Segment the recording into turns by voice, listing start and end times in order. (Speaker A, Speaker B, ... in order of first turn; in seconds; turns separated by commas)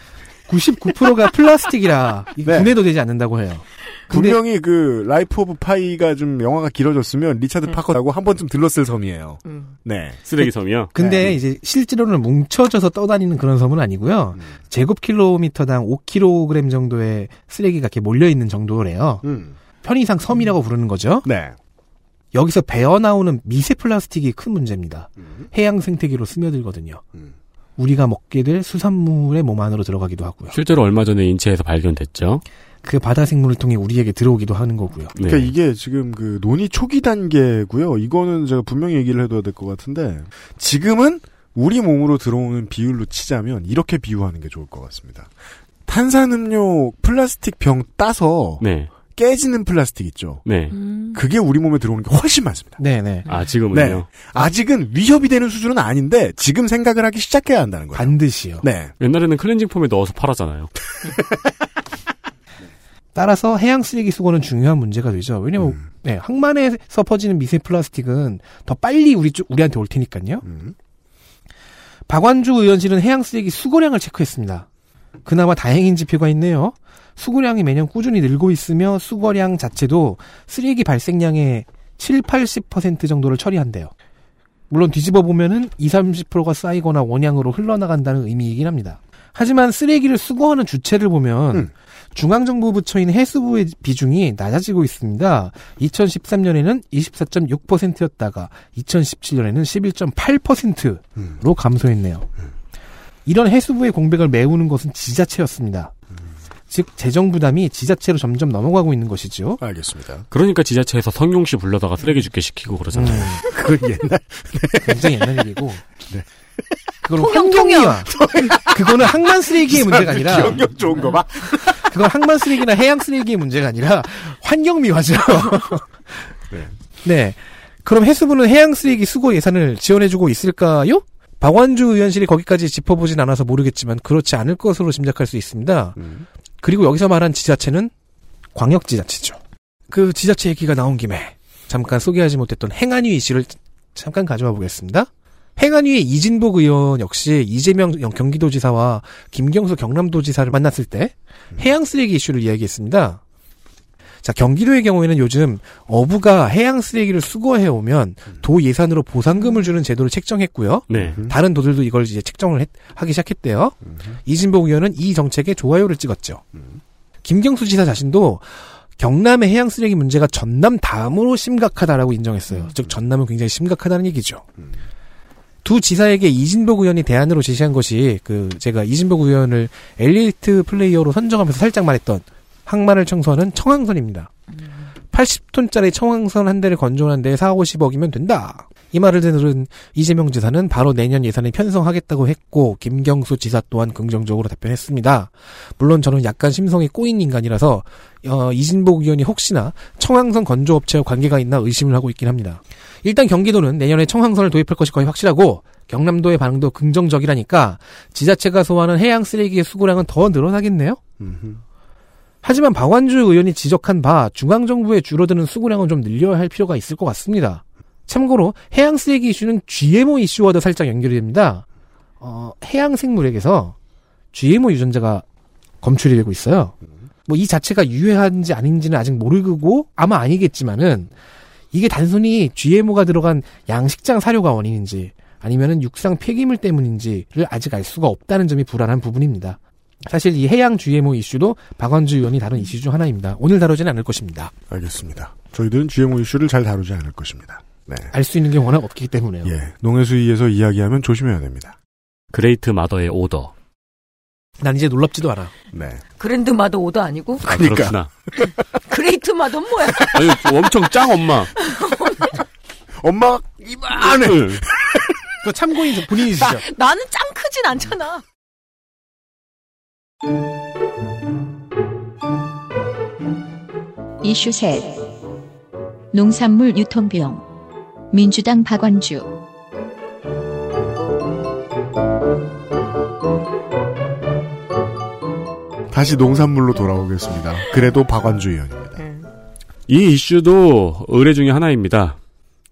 Speaker A: 0.5-4.4, Speaker B: 2.4-2.7, Speaker B: 4.1-10.2, Speaker C: 9.4-9.7, Speaker D: 10.2-10.9, Speaker A: 10.9-19.2, Speaker B: 11.0-11.3, Speaker B: 19.2-19.5, Speaker A: 19.8-21.3, Speaker B: 21.2-21.5, Speaker A: 22.3-27.0, Speaker A: 27.8-30.5, Speaker D: 30.5-32.4, Speaker A: 32.8-35.1, Speaker D: 35.1-35.5, Speaker B: 35.2-45.3, Speaker B: 45.9-50.4, Speaker D: 48.6-48.9, Speaker D: 50.4-50.8, Speaker C: 50.7-51.2, Speaker B: 51.1-52.8, Speaker A: 52.8-53.3, Speaker D: 53.3-54.1, Speaker B: 53.7-58.9, Speaker A: 57.9-58.6, Speaker D: 59.0-60.7, Speaker A: 63.1-70.4, Speaker B: 70.4-70.7, Speaker A: 72.1-74.7, Speaker A: 75.2-83.9, Speaker A: 84.7-102.3, Speaker A: 103.2-105.9, Speaker A: 106.7-109.6, Speaker B: 109.6-110.2, Speaker D: 110.3-113.3, Speaker A: 112.9-113.4, Speaker B: 113.4-115.2, Speaker A: 114.8-115.8, Speaker A: 117.0-121.1, Speaker C: 117.2-118.0, Speaker B: 118.1-121.8, Speaker A: 121.7-125.9, Speaker A: 127.0-136.0, Speaker B: 136.0-136.2, Speaker A: 136.6-137.9, Speaker A: 138.5-153.2, Speaker A: 154.2-166.4, Speaker D: 160.9-161.2, Speaker B: 161.0-161.3, Speaker A: 167.2-174.4, Speaker A: 175.6-184.3, Speaker A: 185.1-211.0, Speaker B: 211.2-211.6, Speaker A: 212.4-221.6, Speaker A: 222.2-223.7, Speaker A: 224.3-225.2, Speaker A: 225.8-226.7, Speaker A: 227.2-231.1, Speaker A: 231.7-244.5, Speaker B: 244.7-248.1, Speaker A: 248.1-249.5, Speaker B: 249.4-251.7, Speaker D: 252.3-253.5, Speaker A: 254.6-255.5, Speaker B: 255.7-256.0, Speaker C: 256.1-257.4, Speaker B: 257.4-258.0, Speaker D: 257.5-258.1, Speaker C: 258.9-260.4, Speaker D: 260.1-261.5, Speaker C: 261.6-262.3, Speaker B: 263.0-265.0, Speaker D: 263.9-264.6, Speaker A: 265.4-266.6, Speaker C: 266.5-268.2, Speaker E: 274.2-275.0, Speaker E: 276.1-277.4, Speaker E: 278.1-279.3, Speaker B: 285.9-289.0, Speaker C: 289.0-289.3, Speaker D: 289.9-292.2